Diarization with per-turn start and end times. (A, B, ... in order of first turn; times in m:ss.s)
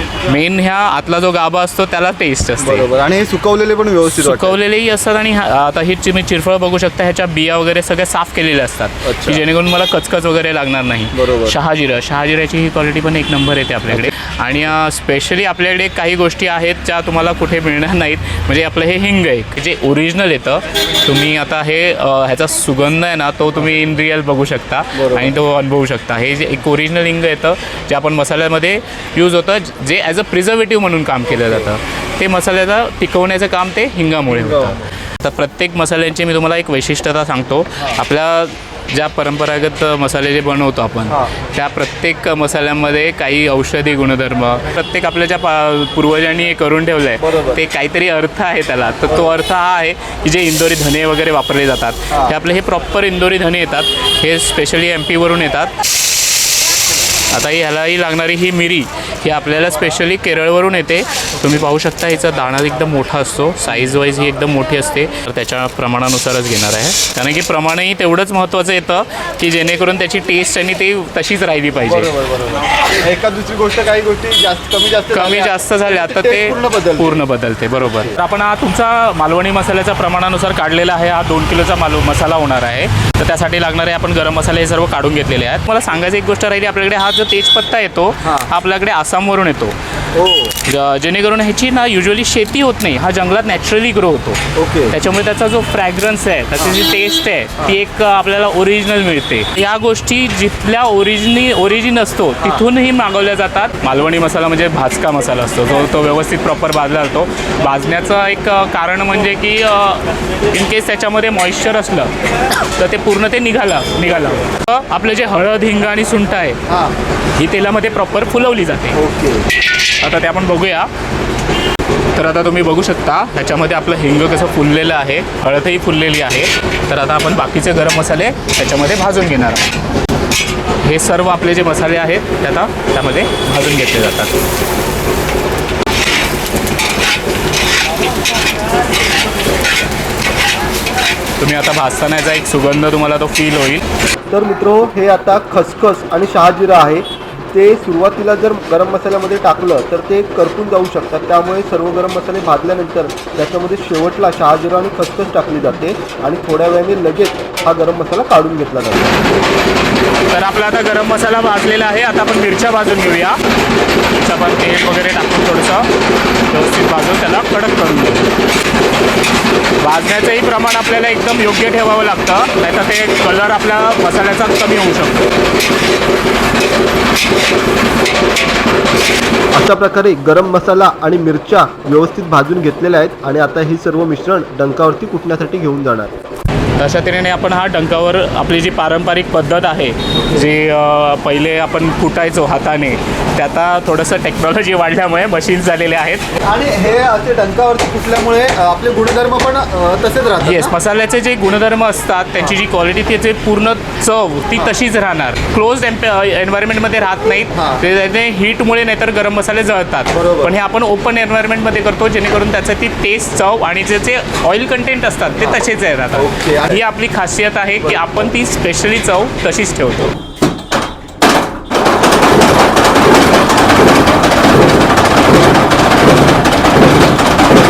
0:00.2-0:02.9 A
0:02.6-0:04.6 B
0:04.1-0:55.7 A
0:09.1-0:09.4 B
0:11.1-0:11.6 B
0:24.9-0:25.3 B
0:31.4-0:31.7 B
0:34.3-0:34.7 B
0:47.2-0:47.6 B
0:57.3-1:12.1 A
1:11.8-1:17.2 B
1:15.1-1:29.8 A
1:28.2-1:28.5 B
1:30.1-1:30.5 B
1:30.6-1:56.6 A
1:34.6-1:34.9 B
1:56.7-1:57.0 B
1:57.4-1:59.0 A
1:59.0-1:59.4 B
2:00.0-2:00.9 A
2:02.1-2:09.7 A
2:10.8-2:14.4 A
2:21.4-2:23.8 A
2:24.3-2:39.3 C
2:40.3-2:43.4 A
2:44.2-2:45.9 A
2:46.5-2:48.3 A
2:49.8-2:55.3 A
2:59.5-3:06.1 C
3:06.8-3:16.3 A
3:16.4-3:20.7 B
3:20.4-3:40.1 A
3:27.5-3:27.8 B
3:30.1-3:30.5 B
3:35.4-3:36.8 B
3:37.8-3:38.2 B